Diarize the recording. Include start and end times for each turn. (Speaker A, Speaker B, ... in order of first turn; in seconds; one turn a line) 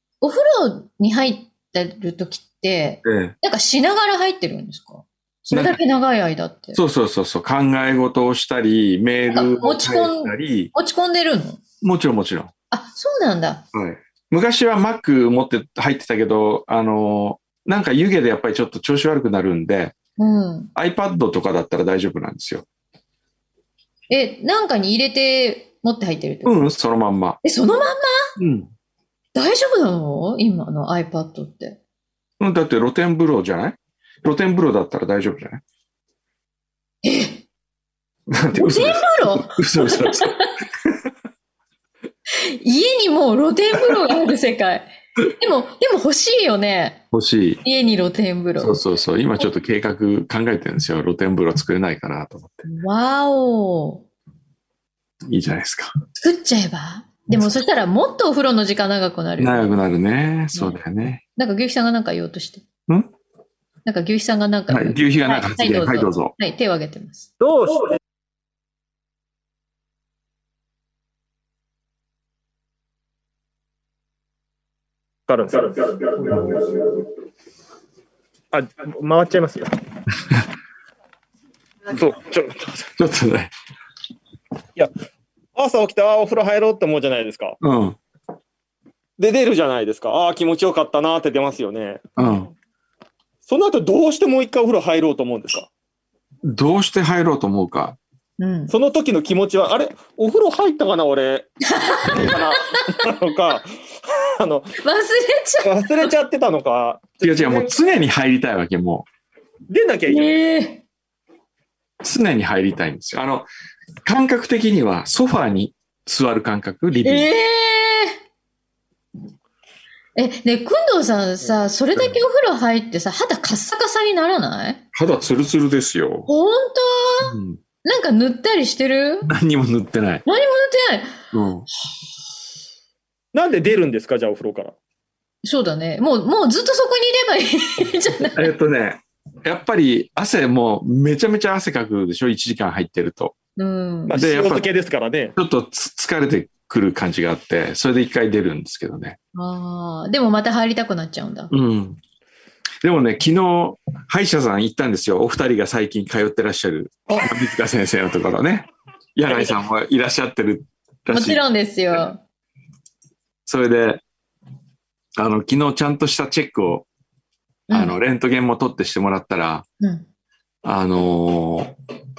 Speaker A: 0.2-6.8
Speaker B: 3.0-3.4
Speaker B: 5.5-5.8
Speaker B: 6.7-10.7
Speaker A: 9.3-11.6
Speaker B: 11.8-12.5
Speaker A: 12.7-13.7
Speaker B: 13.7-19.9
Speaker A: 20.2-20.7
Speaker B: 20.8-22.7
Speaker A: 24.1-26.6
Speaker B: 26.4-27.4
Speaker A: 27.4-28.3
Speaker B: 28.4-28.7
Speaker A: 29.3-31.8
Speaker B: 32.4-35.6
Speaker A: 37.0-37.4
Speaker B: 38.3-40.9
Speaker A: 38.5-40.4
Speaker A: 42.4-47.0
Speaker B: 47.1-47.6
Speaker A: 47.6-48.8
Speaker B: 48.6-52.7
Speaker A: 52.7-54.1
Speaker B: 55.3-55.9
Speaker A: 56.2-59.7
Speaker B: 59.4-61.2
Speaker A: 60.5-60.8
Speaker A: 61.4-62.6
Speaker A: 63.9-67.3
Speaker B: 64.7-66.3
Speaker C: 67.4-67.9
Speaker C: 75.3-76.8
Speaker C: 78.5-79.7
Speaker C: 81.9-82.9
Speaker B: 83.0-83.5
Speaker C: 85.6-87.6
Speaker B: 87.6-88.0
Speaker C: 89.2-92.1
Speaker B: 92.2-92.5
Speaker C: 93.5-95.7
Speaker B: 96.5-98.0
Speaker A: 98.4-98.7
Speaker C: 98.7-101.5
Speaker A: 101.6-102.3
Speaker C: 102.0-104.7
Speaker A: 104.8-106.1
Speaker C: 105.6-107.8
Speaker B: 107.2-109.1
Speaker C: 109.7-110.3
Speaker A: 110.1-110.8
Speaker B: 112.0-113.5
Speaker B: 114.0-117.3
Speaker A: 117.0-118.2
Speaker A: 120.2-124.8
Speaker B: 122.0-122.2
Speaker B: 124.9-126.3
Speaker A: 126.3-129.3
Speaker B: 127.2-127.6
Speaker B: 129.3-130.2
Speaker A: 130.2-131.2
Speaker B: 131.3-131.7
Speaker C: 133.3-134.8
Speaker A: 135.4-138.5
Speaker B: 138.3-143.3
Speaker A: 143.6-144.2
Speaker C: 144.1-145.3
Speaker B: 144.2-144.7
Speaker B: 145.4-149.2
Speaker A: 149.3-151.5
Speaker B: 151.5-152.0
Speaker B: 152.8-161.4
Speaker A: 159.3-159.6
Speaker A: 161.1-162.2
Speaker B: 163.5-164.0
Speaker B: 165.2-166.9
Speaker A: 167.7-168.0
Speaker B: 167.7-169.7
Speaker A: 169.8-170.1
Speaker B: 170.6-171.7